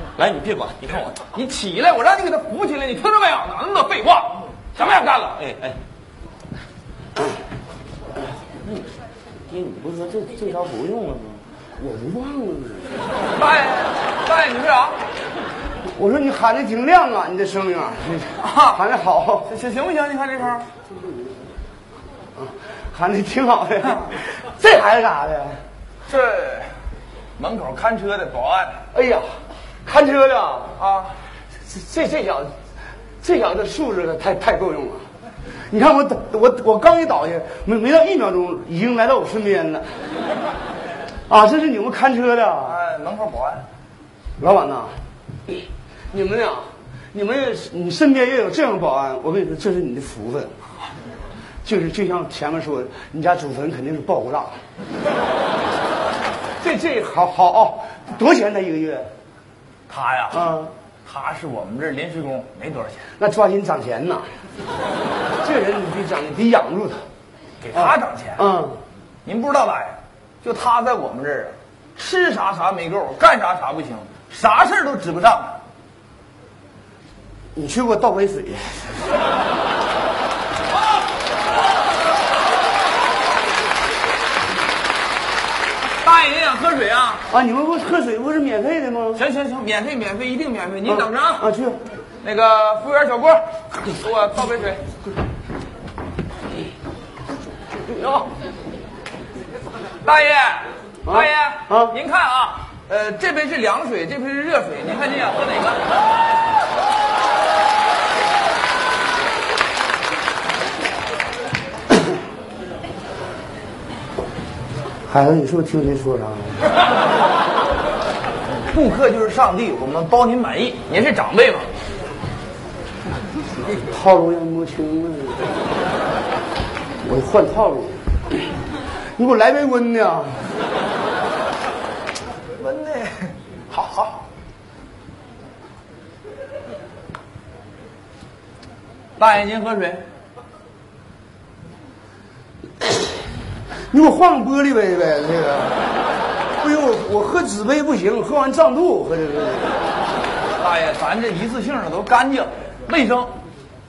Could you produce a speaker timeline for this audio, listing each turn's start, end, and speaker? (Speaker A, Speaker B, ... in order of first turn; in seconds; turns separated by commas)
Speaker A: 0.2-1.3, Speaker B: 1.4-5.3, Speaker A: 4.9-5.8, Speaker A: 9.5-11.4, Speaker C: 11.8-13.0, Speaker B: 13.4-15.0, Speaker C: 15.9-19.5, Speaker B: 18.4-18.8, Speaker B: 19.5-20.7, Speaker C: 22.4-25.6, Speaker B: 26.1-26.7, Speaker B: 27.4-28.8, Speaker C: 28.9-29.3, Speaker C: 29.9-30.8, Speaker B: 30.8-31.1, Speaker C: 31.7-32.5, Speaker C: 33.2-35.0, Speaker C: 35.7-39.9, Speaker C: 41.3-42.8, Speaker B: 42.7-43.7, Speaker C: 44.4-44.9, Speaker C: 46.1-50.6, Speaker C: 51.6-54.6, Speaker C: 56.6-59.1, Speaker B: 59.9-60.4, Speaker C: 60.3-60.7, Speaker B: 61.1-63.0, Speaker C: 63.2-64.3, Speaker C: 65.4-67.0, Speaker B: 67.6-68.4, Speaker C: 67.7-68.8, Speaker B: 69.3-75.6, Speaker C: 77.5-79.0, Speaker B: 86.0-87.2, Speaker C: 87.3-89.3, Speaker B: 89.2-91.4, Speaker C: 90.8-91.8, Speaker B: 92.2-94.8, Speaker C: 97.8-98.3, Speaker B: 100.1-105.8, Speaker C: 101.1-102.0, Speaker C: 115.1-116.7, Speaker B: 118.7-121.7, Speaker C: 123.7-125.4, Speaker C: 127.0-128.5, Speaker C: 129.2-130.4, Speaker B: 132.6-134.2, Speaker B: 139.2-140.0, Speaker C: 143.9-145.8, Speaker C: 146.6-149.8, Speaker B: 150.6-153.3